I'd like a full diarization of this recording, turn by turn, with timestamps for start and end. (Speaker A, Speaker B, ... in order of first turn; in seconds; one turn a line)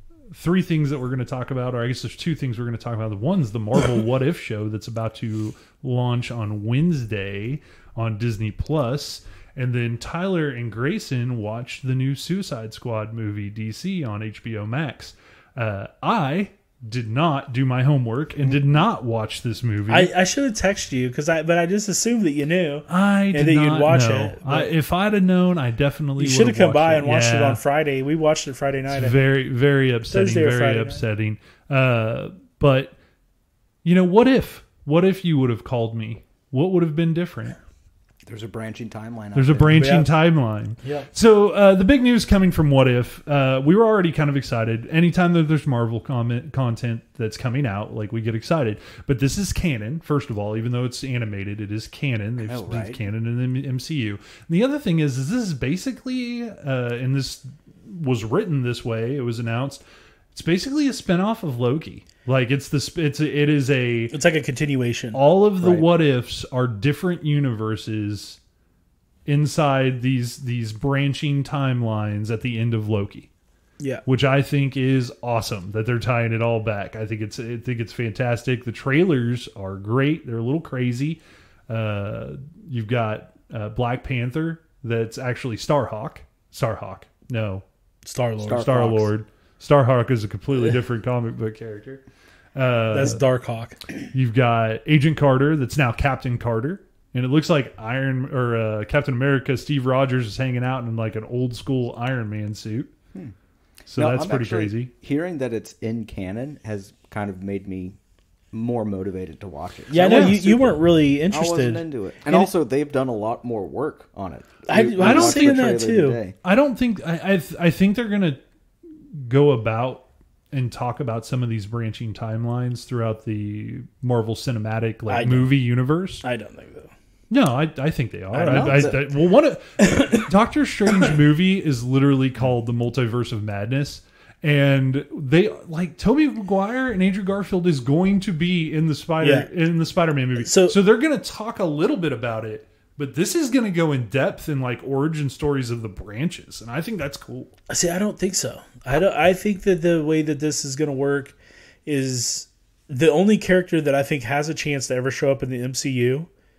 Speaker A: 0.3-20.1
Speaker B: 19.9-24.7
Speaker A: 22.9-27.6
Speaker B: 26.2-29.2
Speaker A: 28.9-32.9
Speaker B: 30.1-31.0
Speaker A: 33.8-37.6
Speaker C: 38.3-39.9
Speaker A: 39.4-59.8
Speaker B: 39.7-40.1
Speaker B: 40.8-41.1
Speaker C: 52.4-53.0
Speaker A: 60.3-64.2
Speaker B: 64.1-65.2
Speaker A: 65.1-68.4
Speaker C: 65.6-65.9
Speaker A: 69.3-73.3
Speaker A: 74.1-87.6
Speaker B: 88.0-88.9
Speaker C: 88.4-89.1
Speaker A: 88.5-92.0
Speaker A: 92.6-93.2
Speaker B: 92.9-93.8
Speaker A: 94.1-102.9
Speaker A: 103.9-104.9
Speaker C: 103.9-108.0
Speaker C: 108.5-116.3
Speaker B: 109.9-112.5
Speaker A: 110.0-110.3
Speaker B: 114.7-116.2
Speaker A: 115.0-115.6
Speaker A: 116.4-118.4
Speaker A: 119.1-126.2
Speaker B: 125.1-125.5
Speaker B: 126.2-126.9
Speaker A: 127.3-147.5
Speaker C: 128.3-129.0
Speaker B: 128.4-128.9
Speaker B: 129.8-130.2
Speaker B: 139.2-139.5
Speaker B: 140.4-140.8
Speaker B: 147.7-151.3
Speaker B: 151.9-156.3